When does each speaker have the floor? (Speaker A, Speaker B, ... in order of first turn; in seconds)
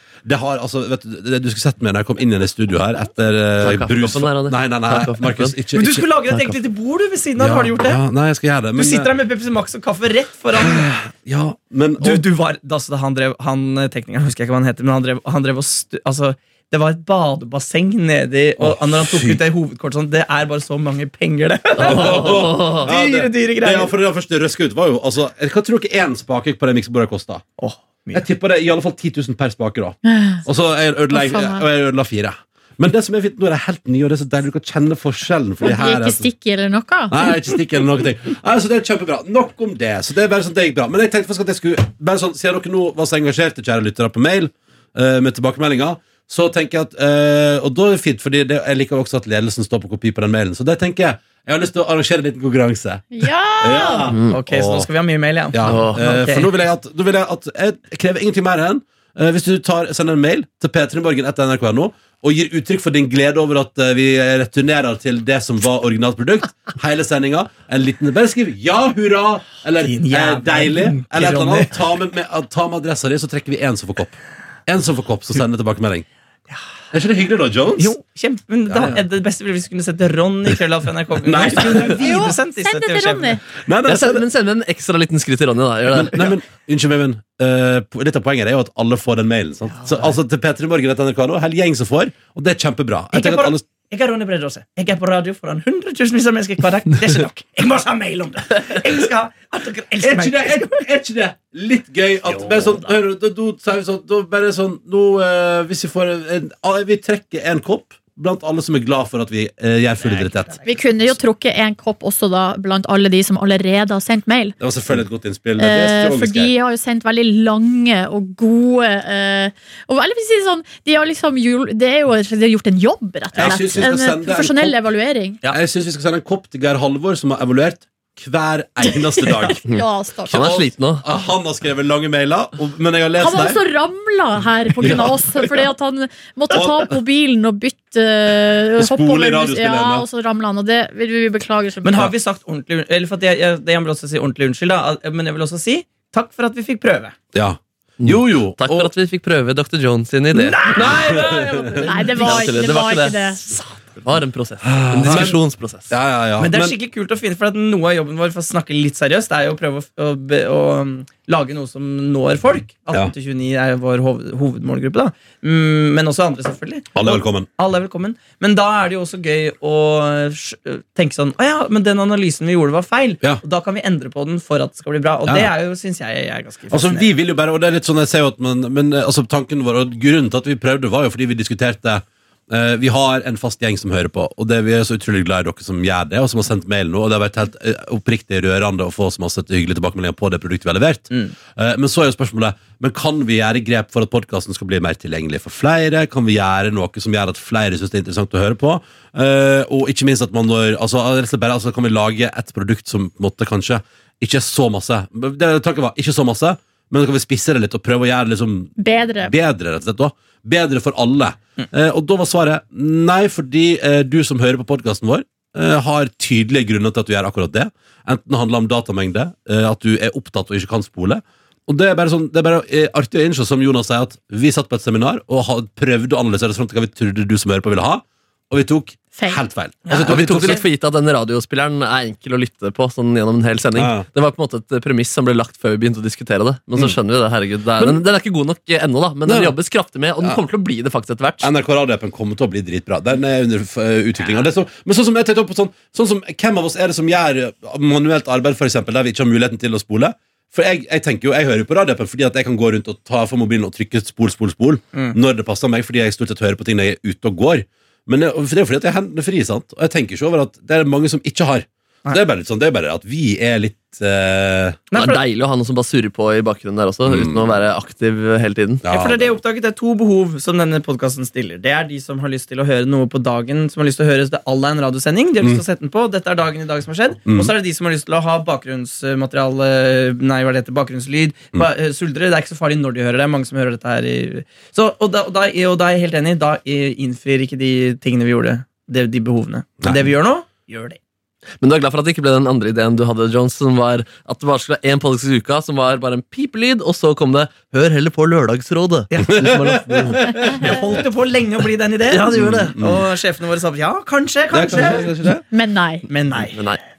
Speaker A: 0.3-6.1, 7.4-9.1, 10.6-12.2, 18.6-19.4, 21.8-27.4, 28.1-36.3, 37.1-54.9, 55.5-74.2, 74.7-76.1, 76.9-78.0, 78.7-79.0, 81.2-82.0, 83.6-84.2, 85.9-93.6, 100.0-110.6, 114.6-116.5, 123.3-124.8, 125.5-129.6, 130.2-133.6, 134.8-135.6, 136.5-136.9, 138.8-140.1, 147.3-148.9, 150.8-151.9, 154.6-156.8, 166.9-167.5, 176.7-230.6, 233.8-234.1, 237.8-238.0, 239.2-239.6, 241.4-264.8, 267.1-267.5, 268.8-269.3, 277.3-277.5, 299.3-300.8, 302.3-303.0, 304.5-305.4
Speaker B: 3.6-5.8, 6.3-6.6, 22.1-22.9, 55.6-56.0, 83.9-86.2, 129.7-131.0, 148.0-151.3, 152.1-155.9, 230.0-241.5, 265.0-268.9, 291.6-300.3, 302.1-302.8, 306.5-306.8
Speaker C: 5.8-8.0, 8.8-11.0, 12.0-23.9, 27.6-28.2, 54.3-56.5, 69.8-71.8, 77.8-83.4, 89.8-90.1, 93.1-100.8, 110.0-110.3, 141.8-147.2, 150.4-152.5, 155.1-155.3, 156.4-177.1, 229.9-230.6, 264.9-265.2, 268.9-291.0, 299.1-299.4, 300.6-302.3, 302.8-305.1, 306.1-306.6
Speaker D: 30.1-30.4, 31.1-31.7, 35.6-37.2, 53.1-54.1, 81.9-83.4, 110.6-114.6, 115.6-125.4, 128.8-130.5, 133.2-142.1, 151.8-153.4, 208.8-209.3, 229.1-229.4, 305.5-306.1